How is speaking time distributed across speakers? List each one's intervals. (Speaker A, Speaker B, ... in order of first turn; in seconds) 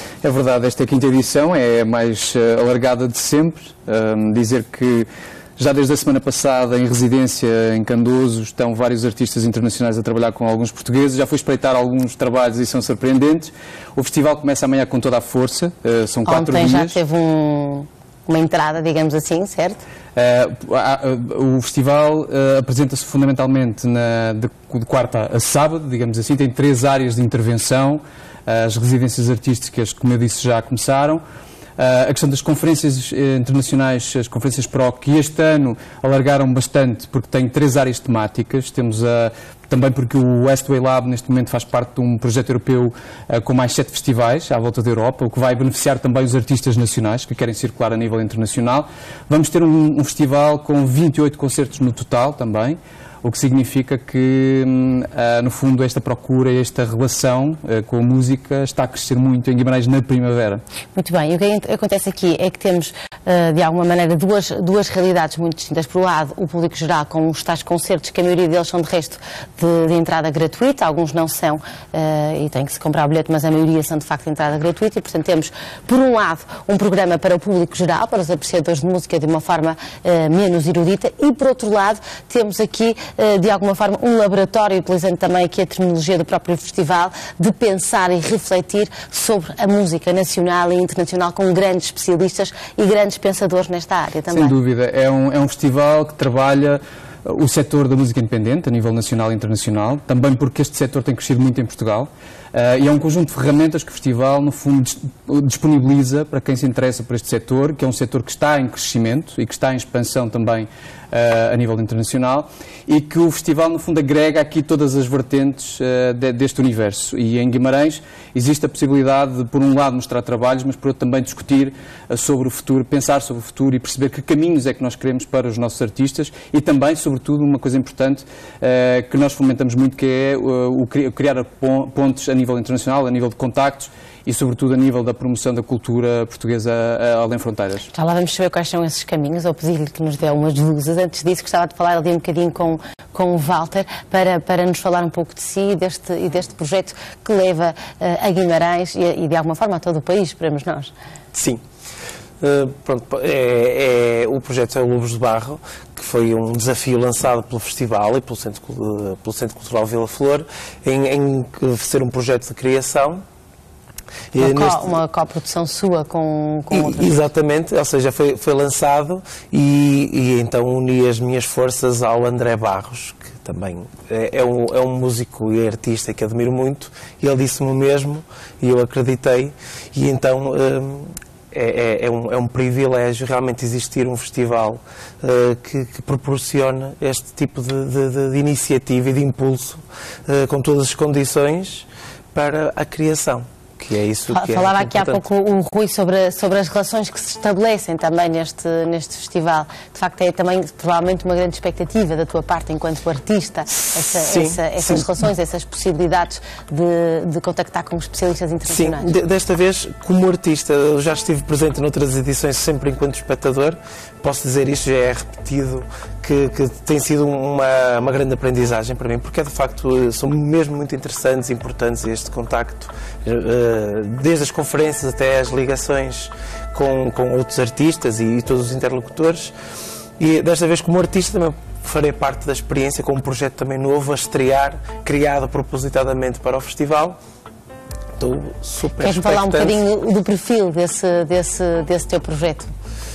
Speaker A: 0.2-5.1, 5.6-17.0, 20.1-31.2, 31.8-60.6, 94.3-137.9
Speaker B: 16.2-19.8, 60.9-94.5, 137.9-150.9, 164.4-167.1, 194.3-209.1, 239.0-242.7
Speaker C: 151.3-151.6, 152.4-163.2, 164.3-164.9, 166.7-195.2, 203.9-205.1, 208.7-229.5, 230.2-237.2, 238.2-239.8